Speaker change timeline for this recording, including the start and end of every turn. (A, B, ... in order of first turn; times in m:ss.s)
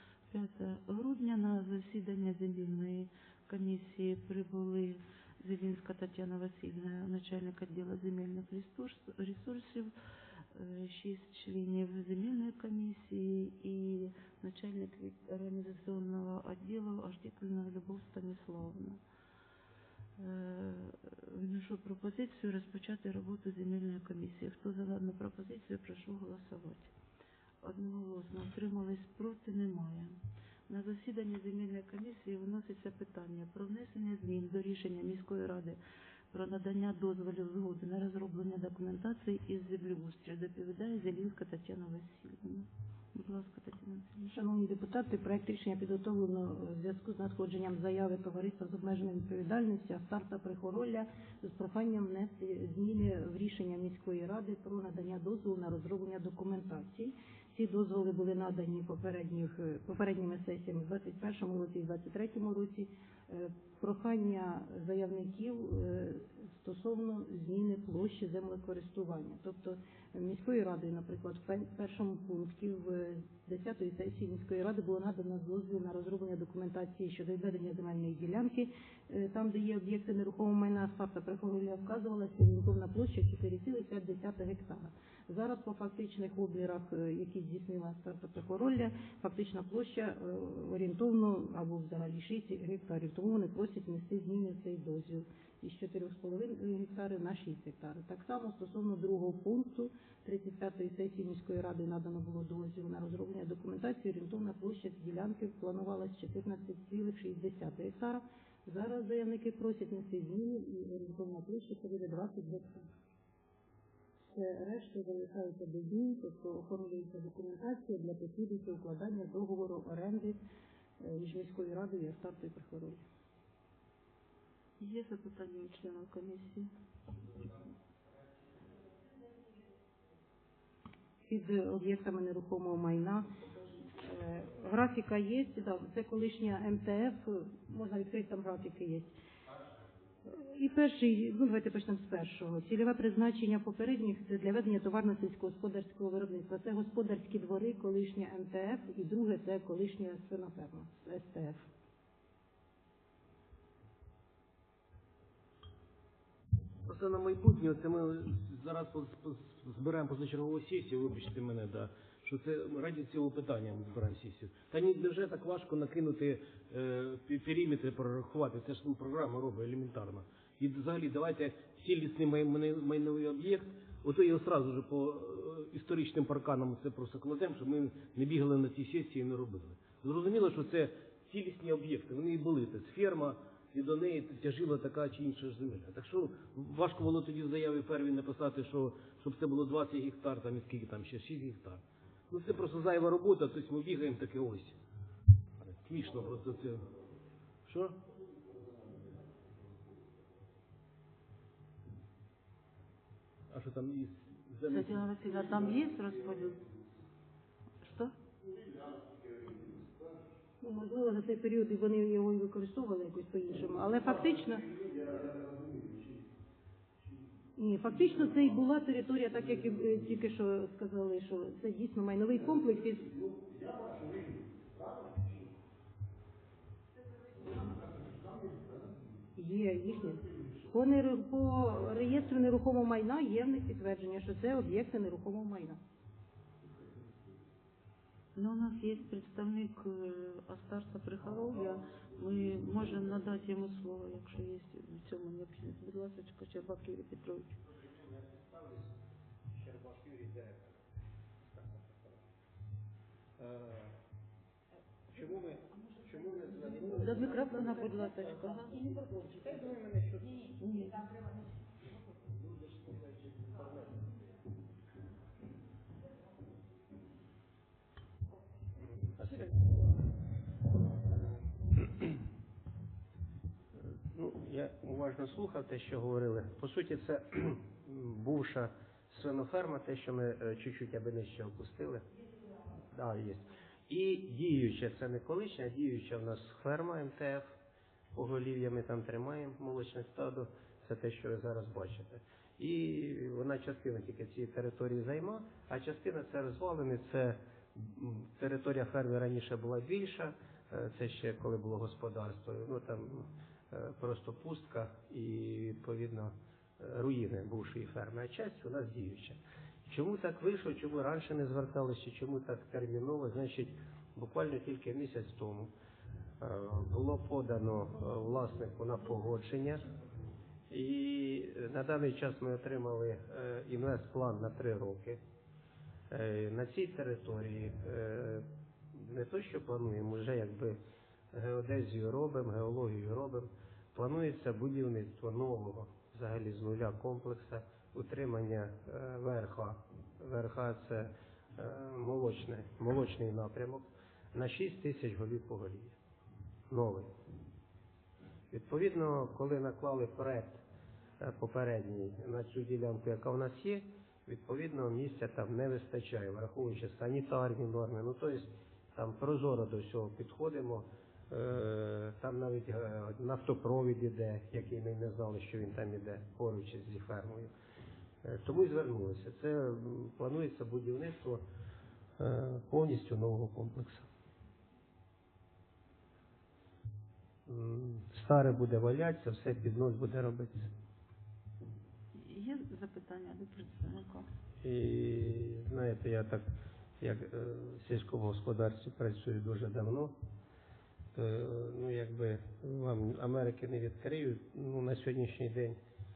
0:00.3-0:09.9 A
0:10.5-0:19.0 A
0:20.2-0:26.9 A
0:27.6-0:35.8 A
0:36.3-0:44.2 A
0:44.2-1:52.9 B
1:54.3-2:00.4 B
2:01.0-2:03.0 B
2:04.8-2:06.7 A
2:11.3-2:13.3 B
2:14.0-2:19.2 B
2:20.3-2:31.7 B
2:36.9-3:14.8 C
3:15.6-3:16.9 C
3:17.7-3:18.0 C
3:23.5-3:25.0 C
3:24.7-3:26.6 A
3:27.8-3:28.1 A
3:30.6-3:34.8 B
3:37.6-3:43.2 B
3:43.3-3:44.4 C
3:49.3-3:55.8 B
3:58.3-4:07.6 A
4:07.8-4:09.0 D
4:09.5-4:10.8 D
4:11.4-4:12.2 D
4:13.4-4:13.9 D
4:15.1-4:20.5 D
4:16.8-4:18.8 A
4:20.6-4:21.0 A
4:22.4-4:24.0 D
4:29.0-4:29.6 D
4:34.1-4:42.0 D
4:42.9-4:47.5 D
4:48.1-5:15.7 D
5:16.4-5:19.9 D
5:20.7-5:25.2 D
5:26.1-5:30.8 D
5:31.3-5:45.9 D
5:46.7-5:47.1 D
5:48.5-5:50.6 D
5:51.2-6:07.5 D
6:08.2-6:11.4 D
6:12.2-6:14.1 D
6:17.4-6:20.7 D
6:22.1-6:24.2 A
6:24.6-6:26.4 D
6:27.0-6:30.1 D
6:31.2-6:35.8 D